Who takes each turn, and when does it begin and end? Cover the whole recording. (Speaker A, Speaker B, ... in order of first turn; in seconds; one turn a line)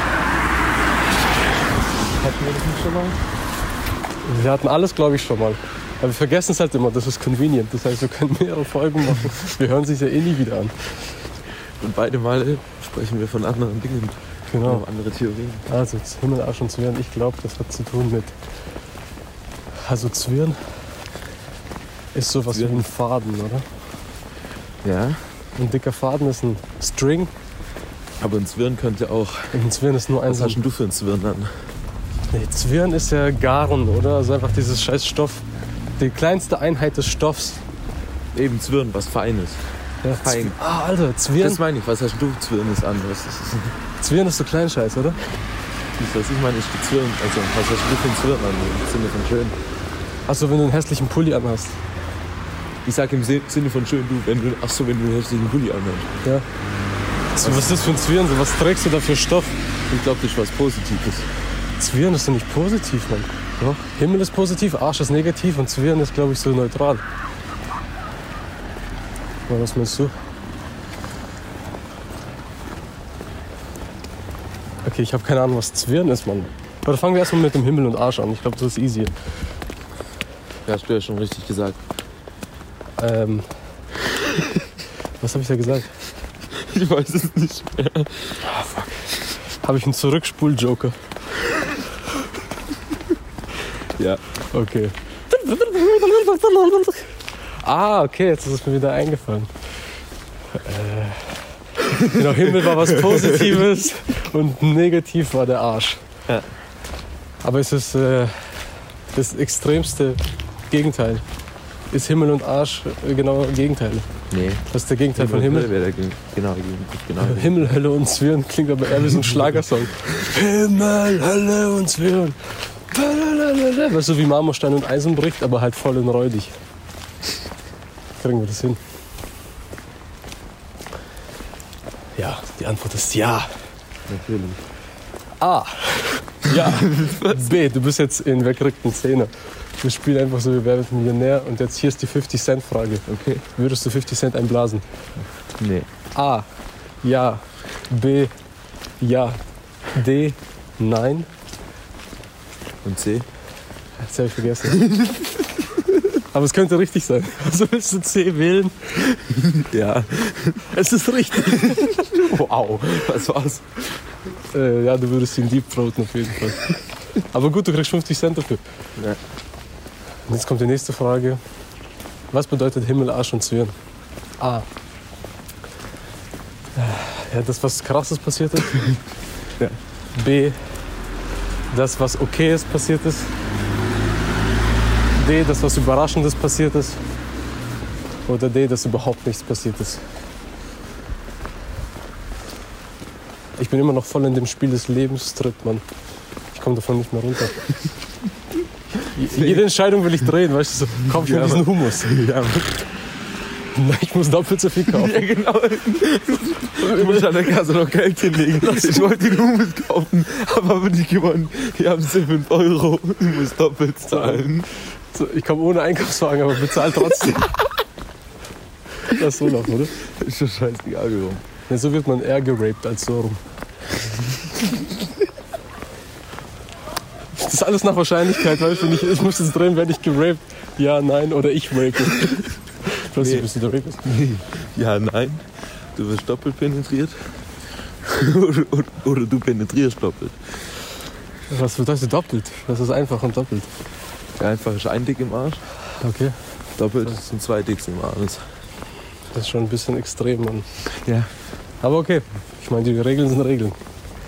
Speaker A: 2.1-3.2
Speaker B: 4.2-10.7
Speaker A: 11.8-15.7
Speaker B: 14.5-14.8
Speaker B: 15.7-18.3
Speaker B: 19.8-20.6
Speaker B: 22.1-23.7
Speaker A: 22.5-22.9
Speaker A: 24.8-25.2
Speaker B: 25.6-27.3
Speaker A: 28.2-29.6
Speaker B: 29.5-30.6
Speaker A: 30.2-31.5
Speaker B: 32.3-35.4
Speaker B: 36.0-37.6
Speaker A: 38.3-39.6
Speaker B: 40.0-41.6
Speaker A: 40.2-40.6
Speaker A: 41.4-43.7
Speaker B: 44.0-45.2
Speaker A: 46.0-49.6
Speaker B: 50.3-51.8
Speaker A: 52.9-56.1
Speaker B: 57.4-59.6
Speaker A: 57.4-57.8
Speaker A: 59.9-61.3
Speaker B: 61.8-67.0
Speaker B: 69.5-70.1
Speaker B: 74.8-79.1
Speaker A: 80.7-81.8
Speaker B: 83.0-83.5
Speaker B: 85.2-85.9
Speaker A: 86.5-88.5
Speaker B: 89.6-91.0
Speaker A: 94.0-94.2
Speaker B: 94.5-99.5
Speaker B: 100.5-106.0
Speaker A: 102.2-103.5
Speaker B: 107.4-108.6
Speaker B: 109.1-111.2
Speaker B: 111.9-114.1
Speaker A: 114.3-114.6
Speaker B: 114.7-115.7
Speaker A: 115.2-117.7
Speaker B: 117.2-122.4
Speaker B: 122.9-126.5
Speaker B: 128.2-128.8
Speaker B: 132.2-133.5
Speaker A: 134.1-134.6
Speaker B: 135.4-144.8
Speaker A: 136.5-137.5
Speaker A: 143.1-143.4
Speaker A: 145.6-145.9
Speaker B: 146.1-146.5
Speaker B: 147.0-148.3
Speaker B: 149.0-149.4
Speaker B: 149.9-151.3
Speaker A: 152.8-153.3
Speaker B: 154.0-154.9
Speaker A: 154.7-155.3
Speaker B: 156.1-159.1
Speaker A: 159.5-160.7
Speaker B: 160.7-162.7
Speaker A: 161.5-163.7
Speaker B: 164.5-168.6
Speaker B: 170.3-171.4
Speaker B: 172.3-173.8
Speaker B: 174.4-174.7
Speaker B: 176.8-179.0
Speaker B: 180.2-180.6
Speaker B: 181.7-183.3
Speaker B: 185.2-187.0
Speaker B: 188.3-190.0
Speaker B: 193.6-195.8
Speaker B: 196.5-197.7
Speaker B: 199.0-202.1
Speaker A: 199.2-199.7
Speaker A: 201.0-202.8
Speaker B: 203.8-205.3
Speaker A: 204.8-214.7
Speaker B: 206.8-207.5
Speaker B: 208.6-209.1
Speaker B: 214.1-214.4
Speaker B: 215.1-217.6
Speaker B: 219.0-220.0
Speaker A: 220.0-221.4
Speaker B: 221.7-223.4
Speaker B: 227.3-234.1
Speaker A: 233.2-233.5
Speaker A: 234.0-235.4
Speaker A: 235.9-237.2
Speaker A: 238.0-240.4
Speaker B: 241.5-243.7
Speaker A: 244.4-245.6
Speaker B: 246.0-246.4
Speaker A: 246.8-248.4
Speaker B: 249.3-250.7
Speaker A: 251.1-251.3
Speaker B: 251.8-253.8